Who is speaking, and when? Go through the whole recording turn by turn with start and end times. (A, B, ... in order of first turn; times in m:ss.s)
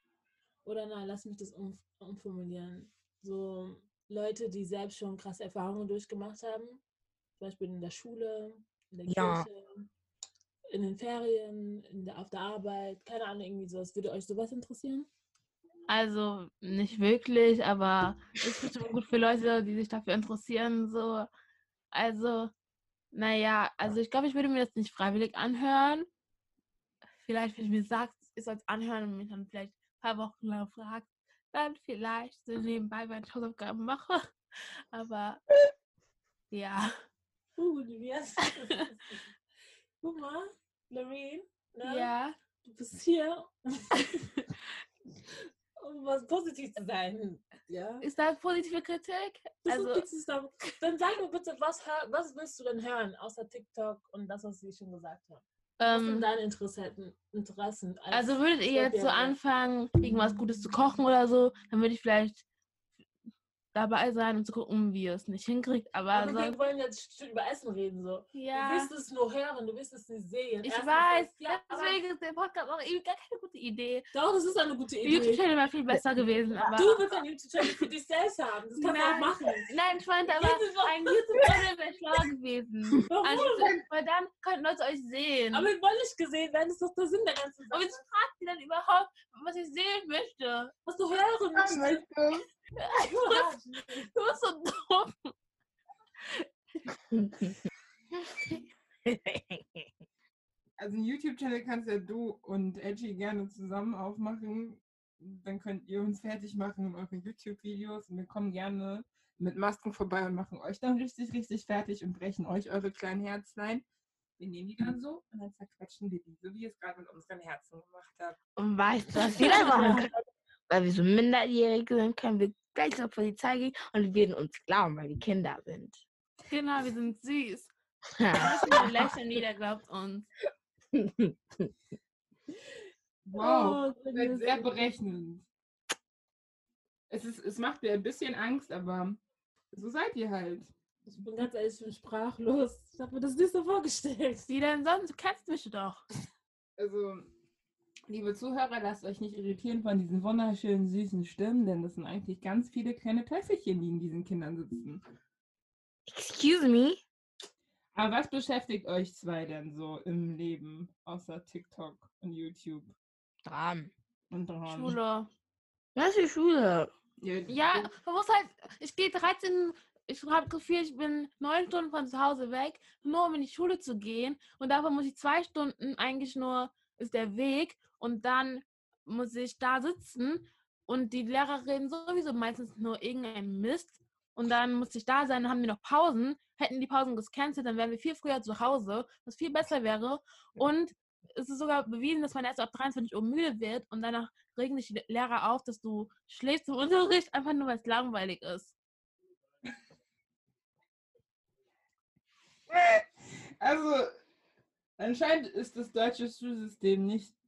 0:00.6-0:06.8 A
0:07.4-0:09.9 A
0:09.0-0:09.5 B
0:10.7-0:15.1 A
0:15.9-0:21.3 C
0:21.9-0:22.5 C
0:23.1-0:26.1 C
0:27.2-0:34.3 C
0:34.9-0:35.4 C
0:36.5-0:36.9 C
0:37.6-0:39.2 A
0:38.5-0:38.8 C
0:40.0-0:42.1 A
0:41.8-0:42.3 C
0:42.6-0:44.3 A
0:44.0-0:44.4 C
0:45.8-0:48.0 A
0:48.0-0:50.1 C
0:49.6-0:59.4 A
0:55.8-0:56.3 C
0:58.1-1:02.4 C
1:03.7-1:06.6 C
1:06.1-1:12.0 A
1:08.3-1:08.9 C
1:10.6-1:14.1 C
1:14.1-1:15.4 A
1:15.0-1:17.1 C
1:16.6-1:19.7 A
1:18.8-1:25.7 C
1:20.3-1:21.7 A
1:23.1-1:23.7 A
1:25.5-1:28.0 A
1:27.7-1:30.7 C
1:30.8-1:32.0 A
1:31.5-1:32.4 D
1:32.8-1:33.5 C
1:33.0-1:34.1 A
1:34.1-1:35.3 C
1:37.1-1:37.5 B
1:39.0-1:39.9 B
1:40.8-1:53.8 D
1:54.4-1:58.4 D
1:58.6-2:00.1 B
1:59.4-2:00.1 A
1:59.4-1:59.9 C
2:00.7-2:06.0 B
2:06.5-2:07.7 C
2:08.2-2:08.9 B
2:08.3-2:10.3 C
2:10.9-2:11.7 B
2:13.2-2:15.4 D
2:13.4-2:14.8 A
2:17.1-2:19.2 D
2:19.7-2:20.7 D
2:21.1-2:24.5 A
2:24.5-2:26.0 C
2:26.8-2:27.3 D
2:28.1-2:35.0 D
2:36.1-2:37.0 B
2:37.9-2:42.9 D
2:43.4-2:43.9 B
2:44.3-2:45.0 D
2:44.6-2:45.3 C
2:45.9-2:46.9 B
2:47.2-2:47.9 D
2:47.5-3:18.7 C
3:22.7-3:24.1 D
3:25.0-3:27.3 D